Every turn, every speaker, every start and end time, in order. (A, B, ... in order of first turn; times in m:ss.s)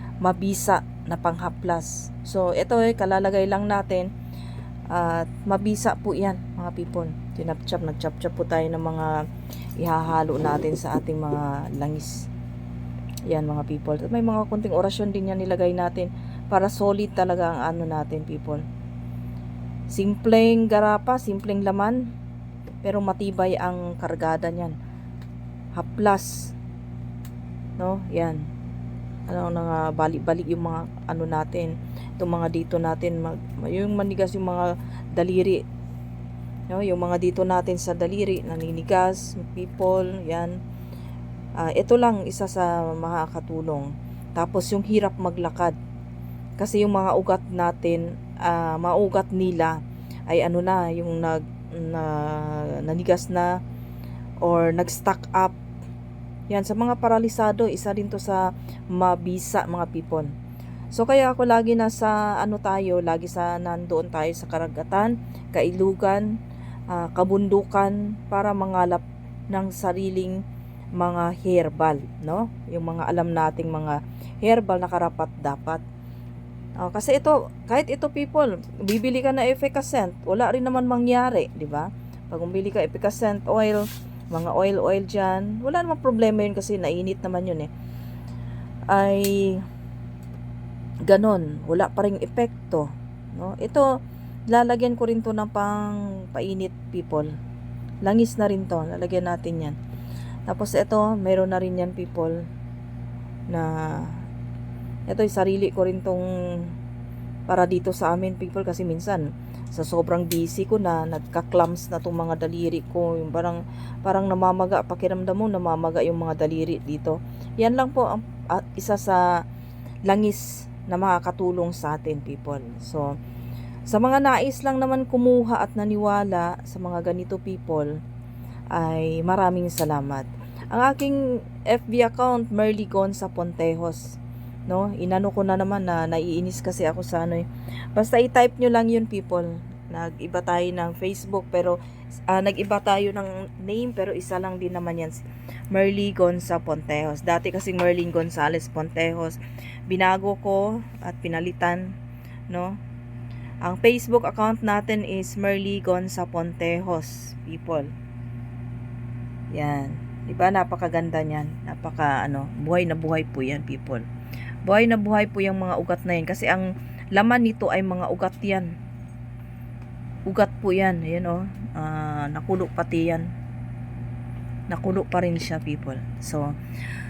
0:00.2-0:04.1 A
0:04.9-0:09.1 A
0:09.8-0:12.3 A
0:13.3-0:18.6 A
0:19.9-0:22.0 A
0:22.8-0:24.8 A
0:25.8-0:26.5 A
0:27.8-0:28.4 A
0:29.3-0:35.6 A
0:36.7-0:40.5 A
0:41.6-0:45.8 A
0:46.6-0:49.8 A
0:50.3-0:53.5 A
0:54.4-0:55.6 A
0:56.5-1:00.3 A
1:00.9-1:06.3 A
1:06.9-1:10.4 A
1:11.0-1:15.8 A
1:16.8-1:27.7 A
1:28.9-1:29.6 A
1:31.1-1:33.8 A
1:34.5-1:37.3 A
1:38.0-1:39.8 A
1:40.5-1:42.4 A
1:43.5-1:44.2 A
1:45.1-1:46.7 A
1:47.5-1:59.3 A
2:00.1-2:03.1 A
2:03.9-2:07.9 A
2:08.7-2:21.8 A
2:22.3-2:31.9 A
2:32.5-2:32.8 A
2:33.6-2:37.9 A
2:39.5-2:44.0 A
2:44.6-2:48.7 A
2:50.3-2:53.3 A
2:54.7-2:56.5 A